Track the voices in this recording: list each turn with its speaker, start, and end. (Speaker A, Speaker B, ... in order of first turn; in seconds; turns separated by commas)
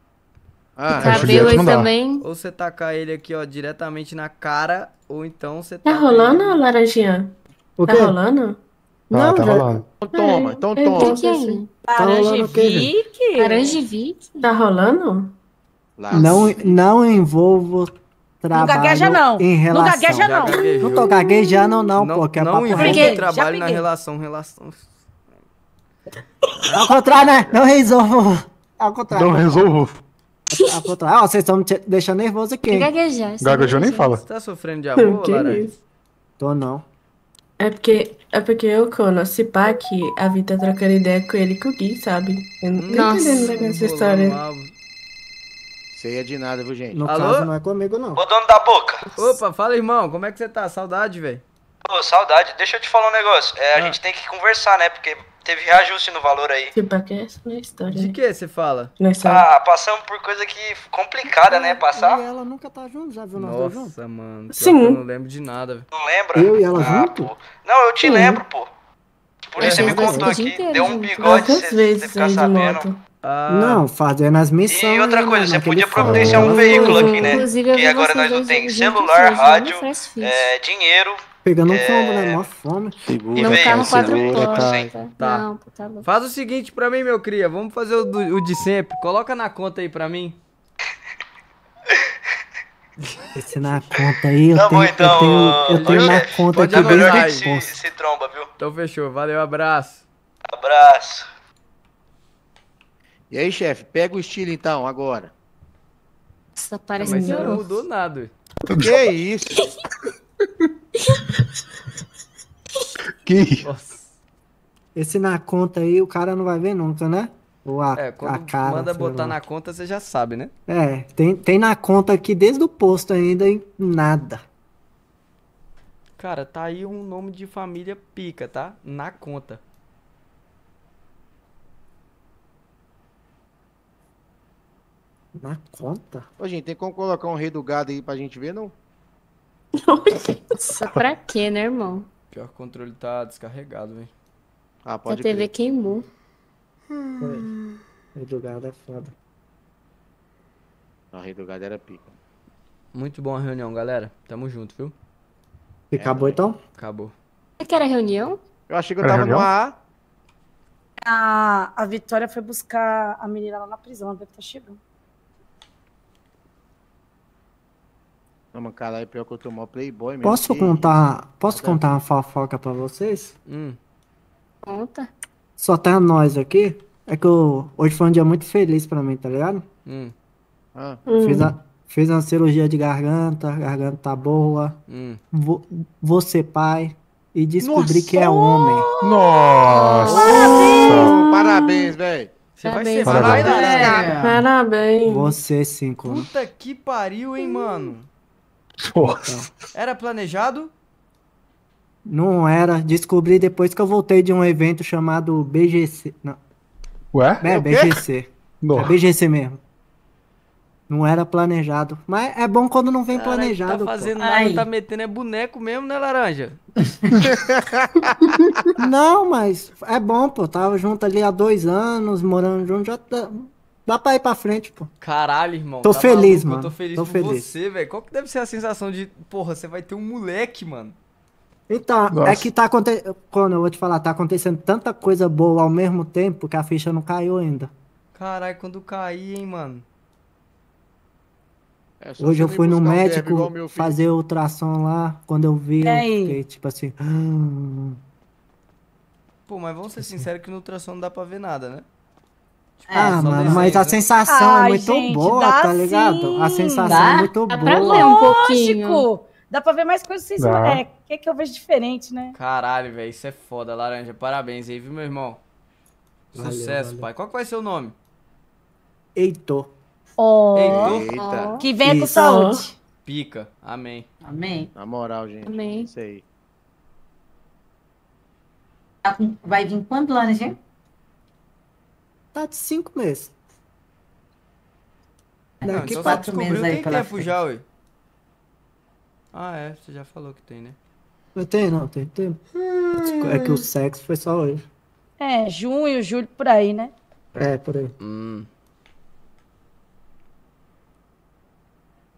Speaker A: 0.8-1.5, Speaker B: 0.9-2.2, Speaker C: 1.0-1.9, Speaker D: 2.2-6.6, Speaker E: 5.8-7.3, Speaker F: 7.8-8.2, Speaker E: 7.9-8.6, Speaker C: 9.1-9.9, Speaker F: 9.1-9.7, Speaker A: 10.0-11.2, Speaker E: 10.1-11.6, Speaker B: 10.9-11.7, Speaker G: 11.9-13.8, Speaker F: 11.9-12.9, Speaker B: 13.4-14.2, Speaker E: 14.4-15.3, Speaker A: 16.0-16.8, Speaker F: 16.1-23.1, Speaker G: 18.5-21.1, Speaker D: 20.2-21.1, Speaker D: 22.0-24.9, Speaker G: 22.7-23.8, Speaker D: 26.6-27.6, Speaker F: 26.7-29.7, Speaker C: 29.1-30.0, Speaker F: 30.5-32.9, Speaker B: 32.7-34.1, Speaker C: 33.4-34.2, Speaker D: 34.1-35.7, Speaker E: 35.0-35.7, Speaker F: 36.4-36.9, Speaker E: 37.6-44.4, Speaker D: 42.8-44.7, Speaker B: 42.9-43.6, Speaker A: 45.9-47.0, Speaker F: 46.9-48.2, Speaker D: 47.0-47.5, Speaker H: 48.1-49.2, Speaker D: 49.1-51.4, Speaker H: 51.9-56.7, Speaker D: 53.7-54.0, Speaker E: 56.7-58.1, Speaker D: 57.9-58.9, Speaker E: 59.0-59.5, Speaker H: 59.2-62.2, Speaker F: 61.5-63.9, Speaker D: 63.4-65.9, Speaker E: 64.5-65.0, Speaker H: 65.9-68.7, Speaker F: 66.3-67.3, Speaker E: 68.0-68.5, Speaker H: 69.5-72.9, Speaker B: 69.6-71.2, Speaker F: 69.6-70.4, Speaker D: 69.6-69.9, Speaker E: 71.2-73.0, Speaker D: 73.2-73.9, Speaker F: 73.5-77.4, Speaker H: 74.7-82.4, Speaker B: 76.2-80.5, Speaker F: 81.4-83.0, Speaker C: 83.1-84.9, Speaker B: 83.3-86.0, Speaker H: 83.4-84.9, Speaker D: 85.2-85.5, Speaker D: 86.0-90.4, Speaker F: 93.4-97.8, Speaker H: 93.9-98.5, Speaker D: 95.7-97.4, Speaker D: 98.6-100.0, Speaker H: 100.5-101.2, Speaker A: 103.3-105.3, Speaker B: 106.5-107.6, Speaker D: 107.0-108.3, Speaker E: 107.1-107.6, Speaker C: 108.7-108.9, Speaker A: 108.8-109.6, Speaker C: 113.2-113.7, Speaker D: 113.6-114.1, Speaker F: 114.9-119.4, Speaker D: 117.9-120.5, Speaker F: 120.7-124.4, Speaker D: 126.2-129.6, Speaker F: 135.4-136.3, Speaker A: 136.4-138.7, Speaker E: 139.8-140.7, Speaker B: 140.7-142.1, Speaker D: 142.3-144.1, Speaker A: 144.8-145.5, Speaker B: 145.1-146.1, Speaker F: 147.2-147.5, Speaker F: 148.1-149.1, Speaker A: 151.1-152.1, Speaker D: 152.9-154.9, Speaker F: 155.9-156.6, Speaker A: 155.9-156.4, Speaker D: 156.8-157.1, Speaker B: 157.6-158.4, Speaker A: 158.7-159.8, Speaker C: 159.0-159.5, Speaker G: 161.0-164.8, Speaker A: 168.5-171.8, Speaker F: 170.2-173.3, Speaker D: 173.5-173.8, Speaker B: 174.6-175.1, Speaker F: 175.6-179.6, Speaker D: 179.9-180.1, Speaker A: 180.8-181.0, Speaker E: 181.1-181.5, Speaker F: 181.2-184.8, Speaker D: 184.9-185.2, Speaker F: 185.3-188.9, Speaker C: 187.7-188.3, Speaker C: 189.0-191.2, Speaker B: 189.7-190.5, Speaker D: 190.1-190.4, Speaker E: 190.4-191.9, Speaker A: 190.9-192.3, Speaker D: 192.6-194.1, Speaker B: 192.6-193.9, Speaker C: 193.0-193.4, Speaker I: 193.3-194.4, Speaker E: 193.8-195.3, Speaker F: 195.0-196.3, Speaker D: 196.1-198.1, Speaker C: 198.8-199.5, Speaker D: 199.8-200.7, Speaker F: 202.1-206.4, Speaker C: 207.1-207.6, Speaker F: 207.4-209.6, Speaker A: 207.5-208.0, Speaker C: 208.6-209.0, Speaker F: 210.9-214.1, Speaker D: 213.1-216.6, Speaker I: 214.2-214.7, Speaker A: 217.2-218.1, Speaker F: 218.8-224.9, Speaker D: 225.0-230.9, Speaker F: 225.8-227.5, Speaker F: 231.7-237.7, Speaker C: 232.1-232.5, Speaker D: 238.1-239.8, Speaker A: 242.0-244.0, Speaker F: 242.2-248.0, Speaker G: 245.8-246.4, Speaker D: 249.5-251.9, Speaker F: 250.0-250.3, Speaker D: 252.8-254.1, Speaker I: 252.9-253.8, Speaker F: 252.9-258.1, Speaker G: 254.3-257.1, Speaker I: 256.9-257.3, Speaker B: 257.5-259.1, Speaker G: 257.8-262.4, Speaker C: 260.4-260.8, Speaker D: 262.4-265.4, Speaker D: 266.3-267.9, Speaker F: 266.4-267.1, Speaker F: 269.1-269.7, Speaker G: 270.2-271.0, Speaker D: 270.6-271.1, Speaker A: 270.7-271.6, Speaker B: 271.1-271.6, Speaker G: 271.6-272.8, Speaker E: 272.1-272.6, Speaker D: 273.0-274.1, Speaker I: 274.2-274.7, Speaker A: 274.8-276.2, Speaker B: 275.4-275.9, Speaker I: 279.0-280.6, Speaker F: 282.3-283.3, Speaker I: 285.6-287.3, Speaker F: 285.6-286.3, Speaker D: 285.6-287.6, Speaker D: 289.3-290.8, Speaker F: 291.4-294.6, Speaker G: 295.2-296.9, Speaker F: 297.4-297.9, Speaker D: 298.0-298.5